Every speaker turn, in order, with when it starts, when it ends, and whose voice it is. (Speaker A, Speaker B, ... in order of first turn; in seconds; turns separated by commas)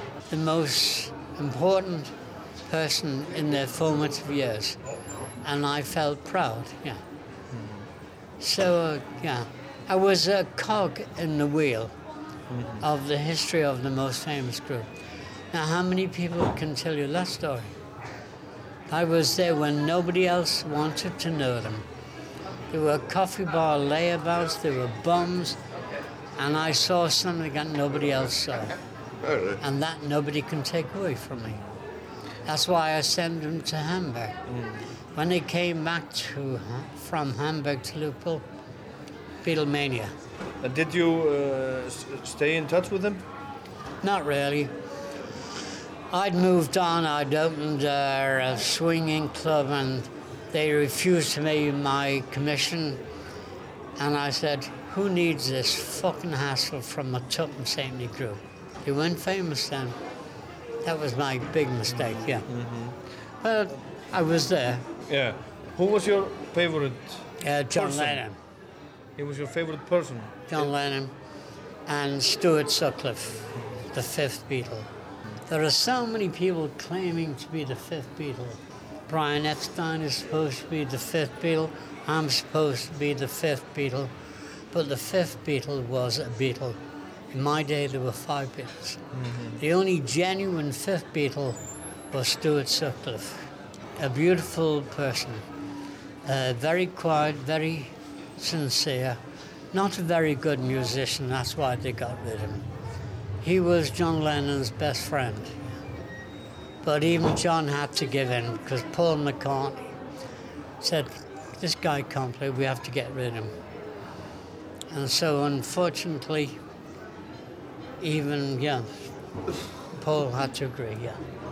Speaker A: 0.3-2.1, Speaker A: 2.7-4.8, Speaker A: 5.4-7.0, Speaker B: 7.6-7.8, Speaker A: 8.4-11.9, Speaker B: 12.5-12.8, Speaker A: 12.8-14.9, Speaker A: 15.5-17.7, Speaker A: 18.9-21.8, Speaker A: 22.7-25.6, Speaker A: 26.4-28.7, Speaker A: 29.6-31.6, Speaker A: 32.5-34.4, Speaker B: 34.5-34.8, Speaker A: 35.1-38.4, Speaker A: 39.4-40.1, Speaker B: 40.6-43.2, Speaker A: 44.0-44.7, Speaker A: 46.1-53.0, Speaker A: 54.0-60.0, Speaker A: 60.8-62.5, Speaker B: 62.5-62.9, Speaker A: 63.4-64.8, Speaker B: 65.1-68.2, Speaker A: 67.4-68.3, Speaker B: 69.2-70.7, Speaker A: 70.5-71.1, Speaker A: 71.9-74.9, Speaker A: 75.5-84.1, Speaker A: 84.7-86.8, Speaker A: 87.3-89.0, Speaker B: 89.3-89.5, Speaker A: 89.6-91.6, Speaker A: 92.1-95.5, Speaker A: 96.2-99.2, Speaker A: 99.7-102.7, Speaker A: 103.4-105.5, Speaker A: 106.8-110.0, Speaker A: 110.8-113.5, Speaker A: 114.9-116.6, Speaker A: 118.0-118.9, Speaker A: 120.0-121.2